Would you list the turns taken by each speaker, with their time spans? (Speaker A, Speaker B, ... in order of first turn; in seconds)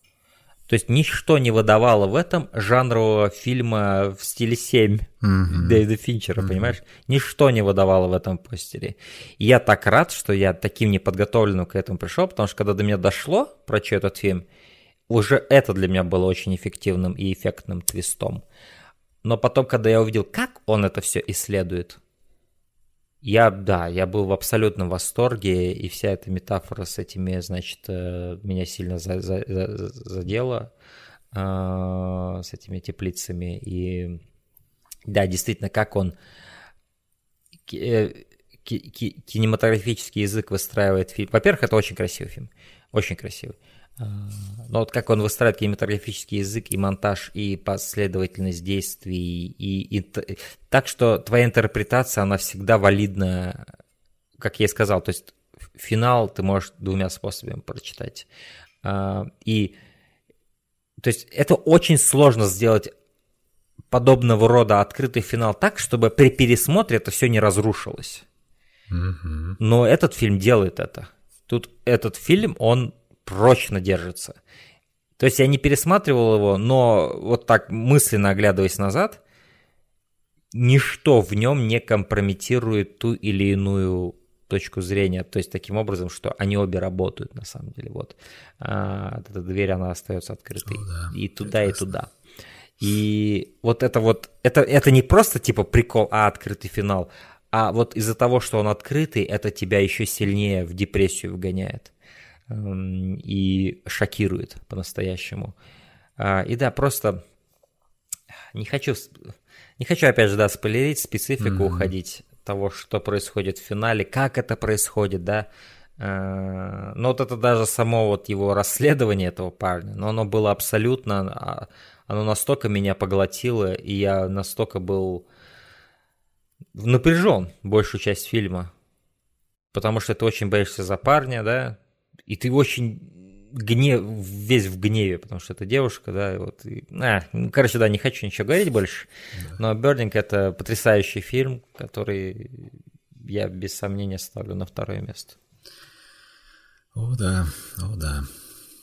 Speaker A: 0.7-14.4, 15.1-18.4, 19.2-22.0, 23.2-30.7, 31.3-34.2, 35.0-36.1, 37.7-53.6, 54.4-58.3, 58.8-59.7, 61.0-62.9, 63.9-68.2, 69.6-74.4, 75.2-79.2, 80.5-92.1, 92.8-101.9, 102.5-105.5, 106.2-107.2, 108.5-109.3, 109.8-125.2, 126.7-128.7, 129.7-145.3
Speaker B: 5.2-5.8, 6.3-6.8, 68.9-69.6, 90.6-91.9, 111.4-111.9, 139.3-139.6, 146.9-148.3